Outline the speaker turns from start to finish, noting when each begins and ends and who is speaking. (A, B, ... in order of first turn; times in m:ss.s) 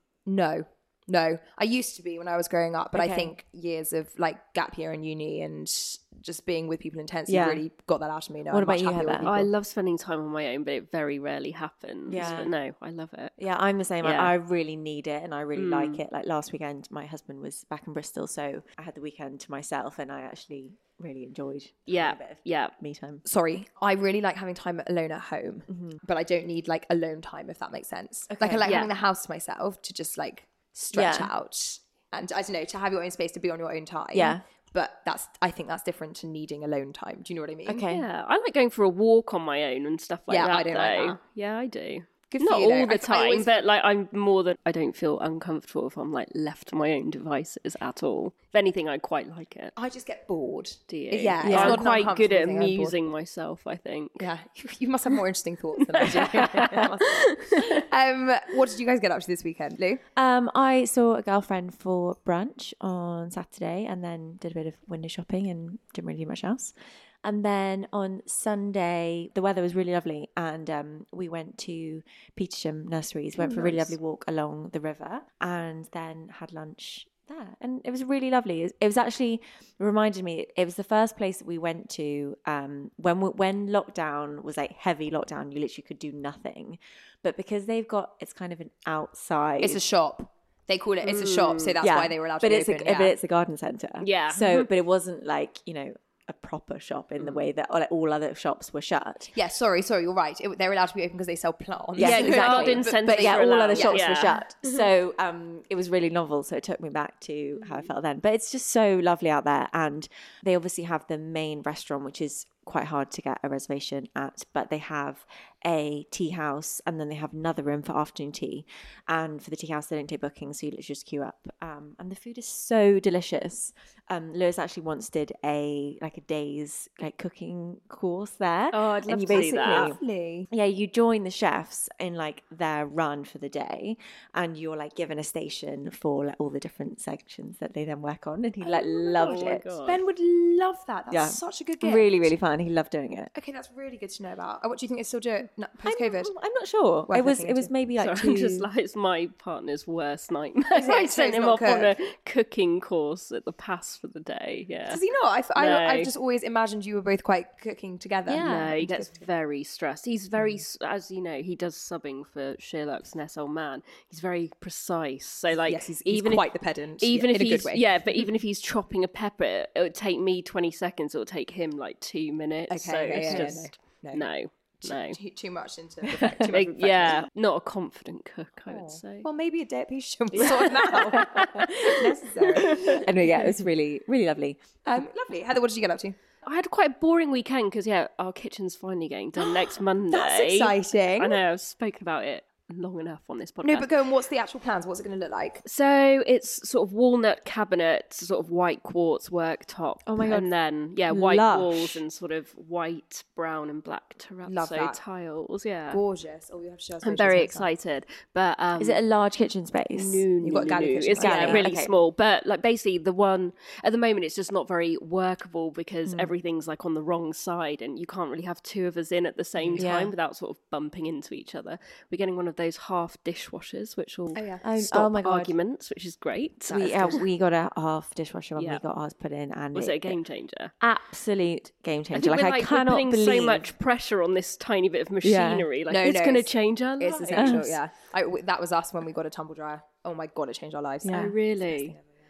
0:00.3-0:09.4 A
0:02.9-0:03.3 B
0:07.3-0:07.6 B
0:08.5-0:09.5 B
0:09.2-0:13.4 C
0:12.1-0:12.5 B
0:13.4-0:23.2 B
0:14.0-0:14.3 C
0:15.6-0:16.0 C
0:21.9-0:22.7 C
0:23.2-0:37.8 A
0:25.7-0:26.0 B
0:28.3-0:28.7 B
0:28.6-0:28.9 C
0:30.9-0:31.3 B
0:34.1-0:34.4 B
0:37.7-0:38.1 B
0:37.9-0:49.7 C
0:40.3-0:41.2 A
0:42.3-0:43.6 A
0:49.8-0:53.0 A
0:50.9-0:54.3 C
0:51.4-0:51.8 B
0:54.2-1:00.0 A
0:56.0-0:57.7 C
1:00.2-1:29.8 B
1:13.4-1:13.9 A
1:29.6-1:33.2 A
1:31.0-1:31.7 C
1:31.8-1:39.3 B
1:34.0-1:34.7 C
1:39.3-1:44.2 A
1:42.0-2:10.0 B
1:42.0-1:44.4 C
2:08.7-2:10.0 C
2:09.3-2:10.5 A
2:10.5-2:19.7 B
2:18.6-2:22.1 A
2:19.2-2:20.0 C
2:21.1-2:23.3 B
2:23.3-2:26.3 A
2:25.8-2:28.7 B
2:27.1-2:27.7 A
2:28.0-2:35.0 C
2:30.7-2:31.9 A
2:34.9-2:39.2 A
2:35.6-2:36.1 C
2:38.3-2:38.8 B
2:38.4-2:55.2 C
2:45.6-2:47.8 A
2:52.7-2:54.2 A
2:53.2-2:53.6 B
2:54.8-2:57.3 A
2:56.5-2:59.3 C
2:58.7-3:03.0 A
3:00.4-3:02.0 C
3:00.9-3:02.0 B
3:02.6-3:03.0 C
3:02.6-3:04.6 B
3:04.9-3:06.2 A
3:06.4-3:13.9 C
3:10.1-3:11.4 A
3:13.6-3:15.6 A
3:15.6-3:26.0 C
3:20.1-3:20.5 B
3:21.1-3:22.0 B
3:24.5-3:25.0 A
3:25.9-3:27.7 A
3:27.0-3:29.0 C
3:28.8-3:30.2 B
3:29.9-3:47.2 C
3:30.4-3:31.7 A
3:31.2-3:31.9 B
3:36.1-3:36.3 B
3:39.8-3:40.1 B
3:44.4-3:44.6 A
3:44.6-3:45.5 B
3:46.7-3:50.2 B
3:48.6-3:48.8 C
3:49.7-3:50.7 C
3:50.8-3:53.7 B
3:52.1-3:57.7 C
3:55.2-3:55.7 B
3:55.9-4:02.1 A
3:57.3-3:57.7 B
4:01.0-4:01.4 B
4:01.1-4:02.0 C